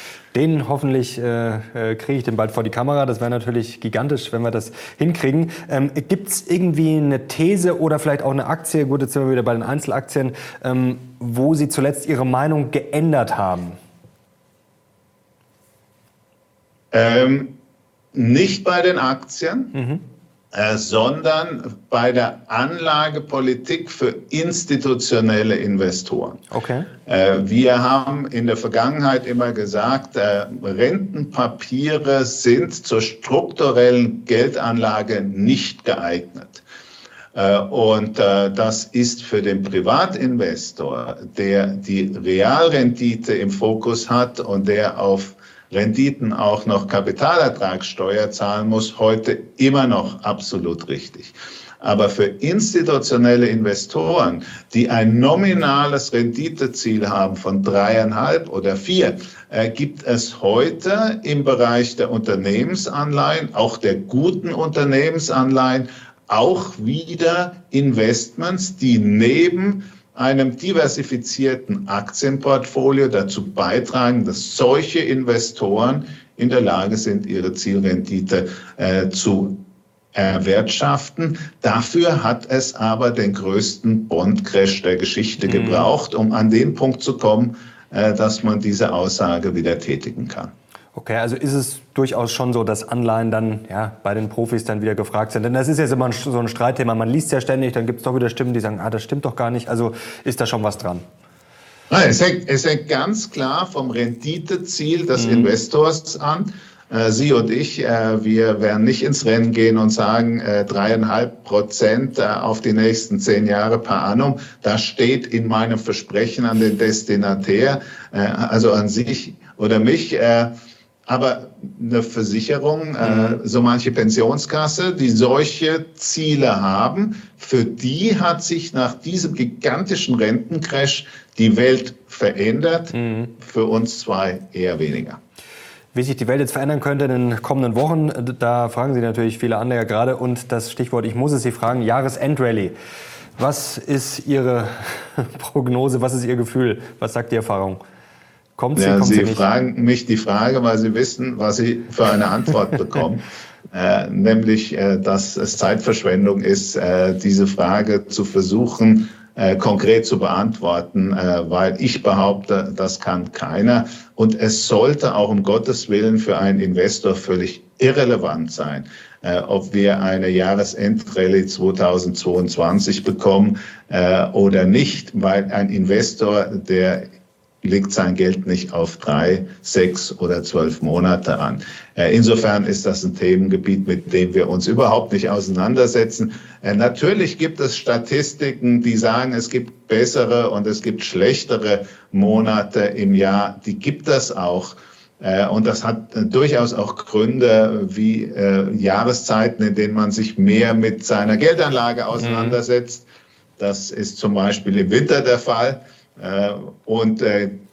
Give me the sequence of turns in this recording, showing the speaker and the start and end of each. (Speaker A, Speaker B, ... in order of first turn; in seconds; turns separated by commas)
Speaker A: 0.3-13.8, Speaker B: 16.9-17.5, Speaker B: 18.1-19.8, Speaker A: 19.7-20.0, Speaker B: 20.5-26.4, Speaker A: 26.5-26.9, Speaker B: 27.1-36.6, Speaker B: 37.3-79.6, Speaker B: 80.1-90.5, Speaker A: 85.5-85.9, Speaker A: 90.9-101.0, Speaker B: 101.9-120.5, Speaker A: 105.2-105.5, Speaker B: 121.1-135.2, Speaker A: 123.0-123.4, Speaker A: 132.9-133.3, Speaker A: 135.9-142.7, Speaker A: 143.4-147.8, Speaker A: 148.6-149.4, Speaker B: 148.8-177.1, Speaker B: 177.6-203.1, Speaker A: 202.2-202.6, Speaker B: 203.6-207.6